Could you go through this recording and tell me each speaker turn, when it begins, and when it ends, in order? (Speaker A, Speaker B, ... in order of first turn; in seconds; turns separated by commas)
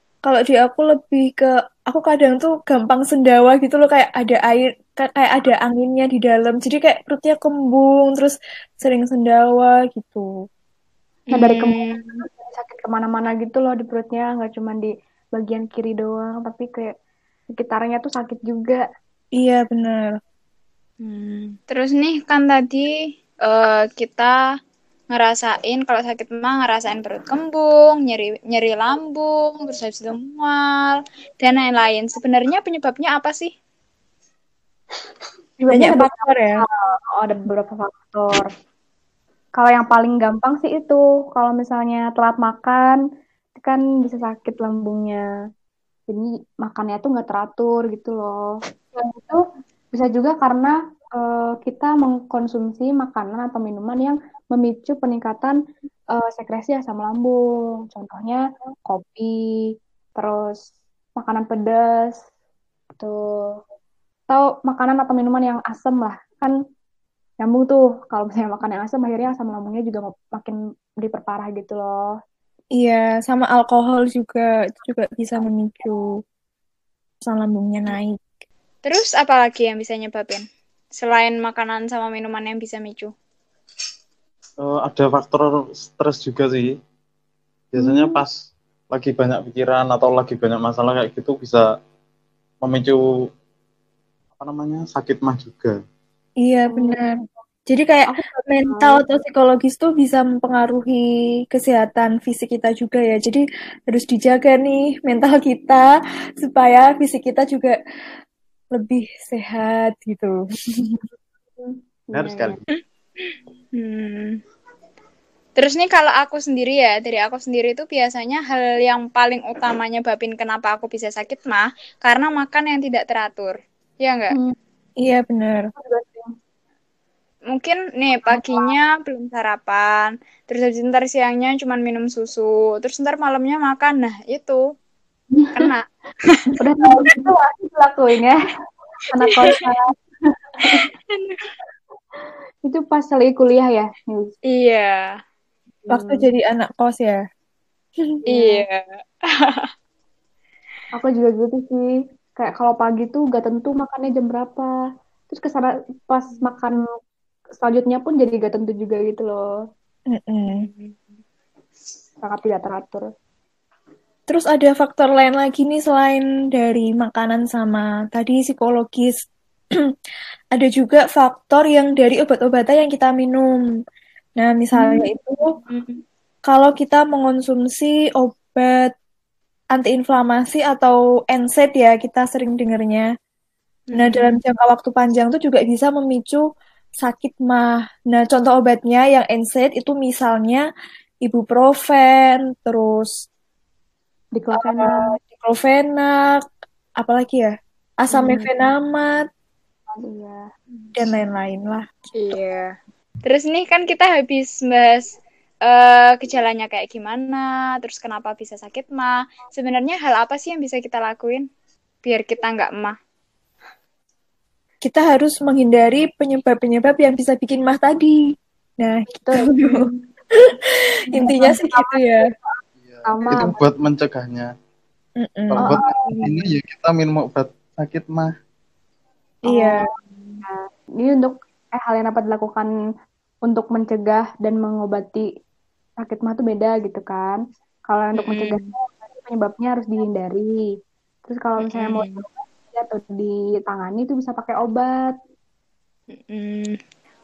Speaker A: 0.3-10.3, Speaker B: 11.3-12.2, Speaker C: 11.3-16.9, Speaker C: 17.5-18.8, Speaker A: 19.4-20.1, Speaker B: 21.0-22.9, Speaker B: 23.5-24.4, Speaker B: 25.1-33.5, Speaker C: 35.6-38.5, Speaker A: 35.7-36.6, Speaker C: 39.6-43.0, Speaker C: 43.6-45.2, Speaker C: 46.1-48.4, Speaker C: 49.0-49.4, Speaker C: 49.9-55.6, Speaker C: 56.1-57.4, Speaker C: 57.9-59.3, Speaker C: 60.2-60.6, Speaker C: 61.2-62.2, Speaker C: 63.0-63.6, Speaker C: 64.3-66.5, Speaker C: 67.4-72.1, Speaker A: 72.8-76.0, Speaker A: 77.3-78.2, Speaker B: 78.8-80.4, Speaker B: 81.0-83.1, Speaker D: 84.6-86.7, Speaker D: 87.7-88.3, Speaker C: 87.8-88.1, Speaker D: 88.9-91.7, Speaker D: 92.6-93.0, Speaker D: 94.4-95.8, Speaker A: 96.4-97.2, Speaker C: 96.7-97.0, Speaker A: 97.7-105.8, Speaker C: 98.1-99.0, Speaker A: 106.4-107.8, Speaker A: 108.8-111.0, Speaker C: 111.6-112.6, Speaker D: 112.2-112.6, Speaker B: 112.8-114.4, Speaker B: 115.6-124.4, Speaker C: 124.3-124.6, Speaker A: 125.0-125.7, Speaker C: 125.8-126.3, Speaker B: 127.5-134.6, Speaker C: 128.3-128.7, Speaker C: 135.3-135.7, Speaker B: 135.5-136.5, Speaker C: 136.6-138.4, Speaker C: 139.1-139.9, Speaker C: 140.6-140.8, Speaker B: 140.7-141.4, Speaker C: 142.7-144.3, Speaker B: 144.5-145.2, Speaker C: 145.9-146.2, Speaker A: 145.9-147.2, Speaker C: 148.3-148.7, Speaker B: 148.3-149.7, Speaker C: 150.9-154.7, Speaker C: 155.3-156.8, Speaker C: 157.6-159.4, Speaker A: 160.1-160.7, Speaker B: 160.5-161.2, Speaker C: 162.2-163.1, Speaker A: 164.3-169.2, Speaker A: 170.6-173.5, Speaker A: 174.4-175.4, Speaker B: 175.7-176.0, Speaker A: 176.5-178.9, Speaker A: 179.7-183.1, Speaker B: 183.9-184.3, Speaker A: 183.9-186.4, Speaker A: 187.0-190.6, Speaker A: 191.2-193.2, Speaker C: 194.4-195.1, Speaker A: 194.6-196.4, Speaker A: 197.0-199.2, Speaker B: 198.2-198.4, Speaker C: 199.9-200.4, Speaker A: 201.0-201.9, Speaker B: 202.2-211.5, Speaker B: 212.0-213.0, Speaker A: 214.8-218.2, Speaker A: 218.8-219.8, Speaker C: 219.1-220.0, Speaker C: 221.1-223.6, Speaker A: 221.2-222.2, Speaker D: 222.8-224.5, Speaker A: 225.2-226.3, Speaker D: 225.5-228.3, Speaker C: 225.6-226.2, Speaker C: 229.5-229.8, Speaker A: 229.5-229.8, Speaker C: 230.4-232.7, Speaker C: 233.5-235.3, Speaker C: 236.0-240.5, Speaker B: 238.2-238.7, Speaker C: 241.3-245.1, Speaker B: 241.6-242.2, Speaker B: 246.1-246.8